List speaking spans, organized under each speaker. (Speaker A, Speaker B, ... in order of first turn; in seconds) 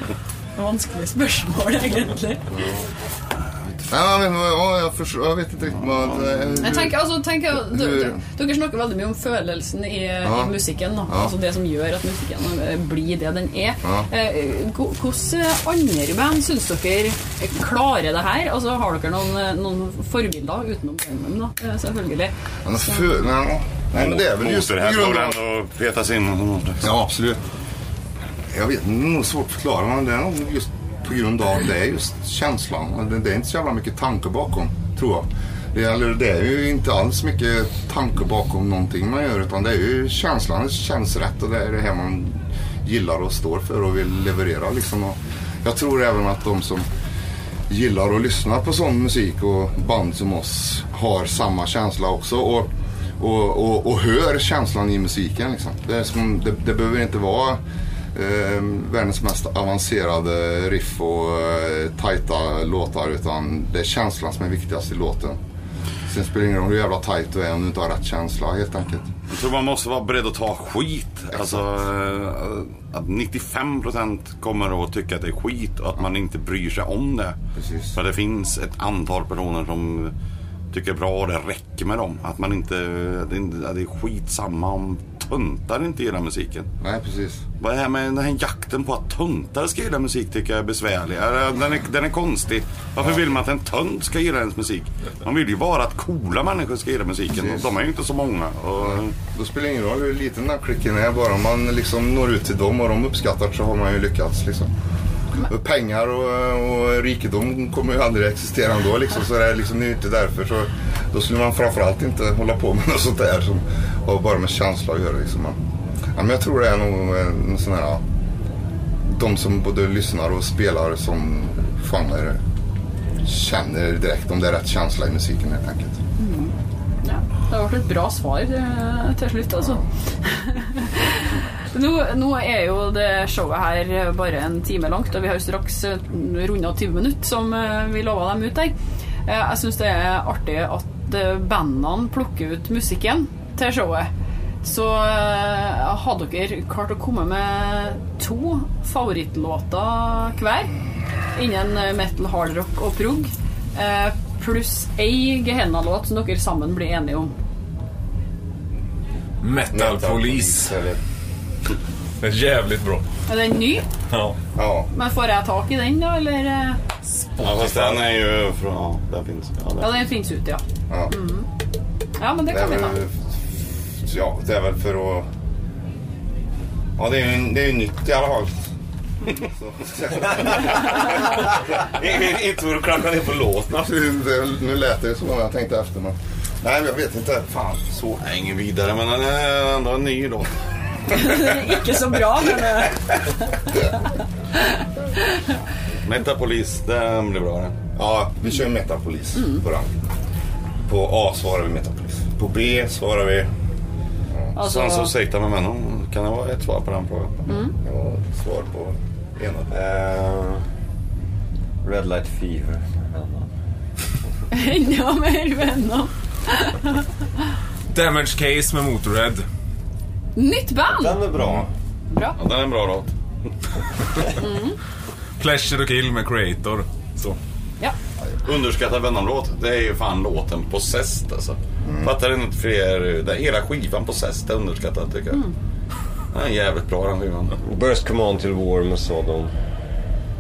Speaker A: 0.6-2.5, 6.6-23.2, 126.2-138.8, 139.3-144.1, 144.6-150.7, 151.3-157.3, 163.3-163.9, 164.9-166.8, 169.8-171.5, 172.2-173.0, 191.1-193.7, 194.5-195.5, 199.4-199.6, 204.6-205.1, 207.5-207.7, 214.5-217.1, 220.4-221.2, 222.1-222.4, 224.4-224.8
Speaker B: 2.5-2.8, 3.9-8.2, 10.2-10.6, 11.1-11.3, 22.6-25.4, 26.8-27.5, 28.5-46.9, 47.7-57.6, 58.1-65.4, 66.1-69.1, 71.3-71.8, 77.5-78.0, 86.8-87.5, 97.3-97.7, 98.8-104.7, 105.3-115.6, 116.2-118.0, 119.0-122.4, 123.2-126.0, 159.7-161.0, 164.6-164.9, 172.5-175.3, 177.0-181.7, 183.7-188.2, 193.7-193.9, 198.0-199.9, 200.8-203.5, 207.7-209.8, 221.3-221.7, 231.8-232.1
Speaker C: 23.9-26.9, 69.3-77.4, 77.9-80.1, 80.7-86.7, 87.6-99.2, 167.4-170.1, 180.4-183.8, 188.2-190.5, 191.0-191.6, 196.1-197.7, 204.6-207.4, 222.4-223.1, 228.4-235.4, 236.3-237.6
Speaker D: 159.4-160.8, 162.2-163.0, 164.1-164.4, 167.2-167.9, 217.9-219.4, 225.4-227.4
Speaker E: 209.7-210.6, 211.8-213.5, 220.9-221.7, 237.6-239.5